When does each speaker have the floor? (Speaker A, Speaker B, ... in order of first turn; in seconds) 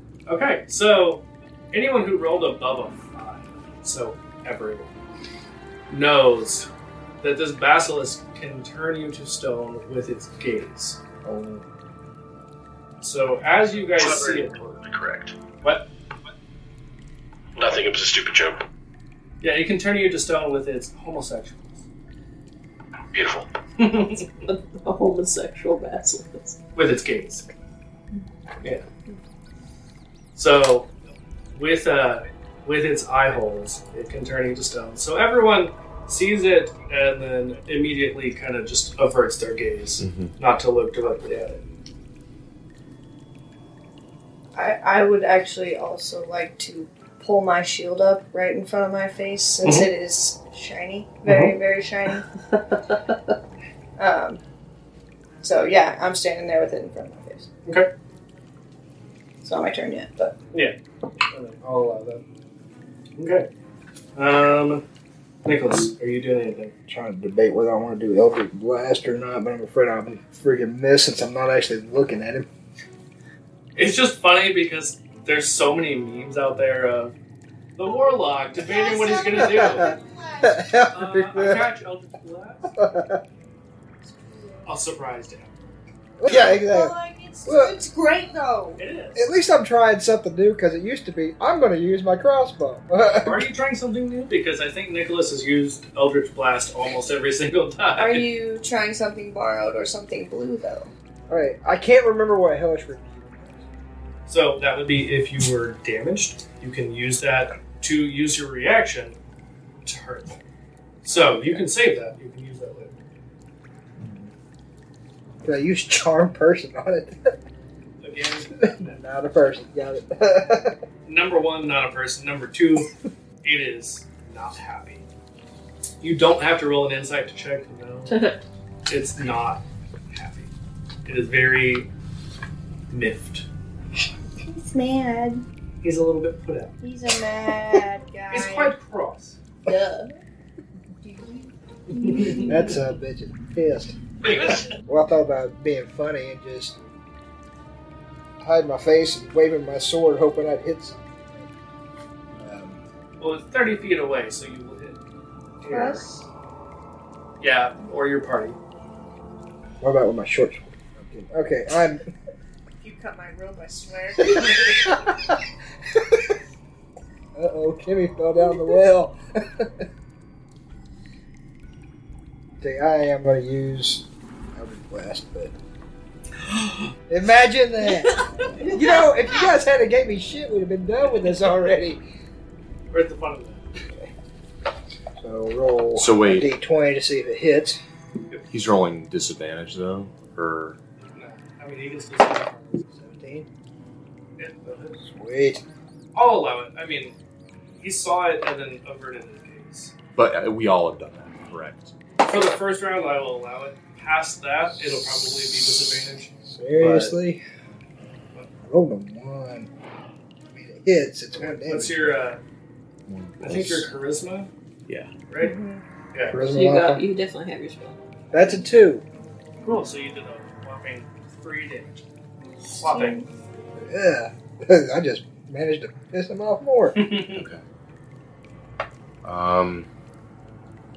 Speaker A: 0.3-4.9, 5.9-6.7, 7.2-11.6, 13.0-14.5, 15.6-15.9, 19.4-21.8, 23.8-24.3, 26.8-27.5, 30.4-30.9, 31.5-41.6, 49.6-49.9, 51.2-51.5, 61.3-62.2, 63.2-63.5, 64.2-64.8, 65.5-66.7, 73.8-77.2, 77.8-79.9, 80.9-82.7, 84.7-85.5, 88.8-89.3, 93.2-98.3, 104.3-109.2, 109.8-110.4, 111.0-113.0, 118.0-118.9, 121.1-122.9, 123.4-125.0, 126.0-128.2, 128.9-130.5, 131.1-131.9, 132.9-133.5, 135.8-136.8, 138.3-139.4, 144.2-144.7, 153.2-155.0, 155.6-156.1, 157.4-158.6, 182.9-183.7, 191.1-192.8, 194.4-195.0, 196.2-197.2, 197.8-199.9, 202.2-207.2, 211.4-212.4, 213.4-214.5, 215.3-215.6, 219.6-222.0, 222.6-223.2, 226.9-227.5
Speaker B: 14.0-15.4, 17.6-18.6, 23.1-23.5
Speaker C: 24.5-26.6, 128.1-128.4, 216.4-218.0
Speaker D: 40.0-40.3, 186.0-186.5, 188.5-190.8, 200.2-201.9, 213.1-213.9, 227.3-227.6, 229.2-229.9
Speaker E: 44.5-52.3, 54.0-54.4, 55.4-57.5, 59.4-60.4, 77.8-80.7, 84.2-84.6, 86.3-88.8, 98.0-100.9, 134.3-135.4, 136.8-138.8, 139.7-140.1, 141.0-142.8, 155.7-156.3, 162.8-165.1, 215.4-215.8, 222.8-223.3
Speaker F: 66.9-72.5, 79.4-79.9, 80.4-81.7, 82.7-83.2, 86.2-87.8, 89.2-93.5, 101.3-103.7, 114.0-114.3, 115.4-117.3, 118.5-120.8, 142.1-146.8, 148.4-151.5, 152.4-152.8, 159.8-162.1, 164.3-165.4, 165.9-166.3, 167.3-169.9, 172.6-175.5, 177.1-182.0, 185.2-187.8, 192.9-193.5, 195.0-195.6, 204.9-205.8, 206.4-207.4, 208.7-209.7, 210.5-212.2, 216.3-217.1, 218.3-219.1, 223.8-227.0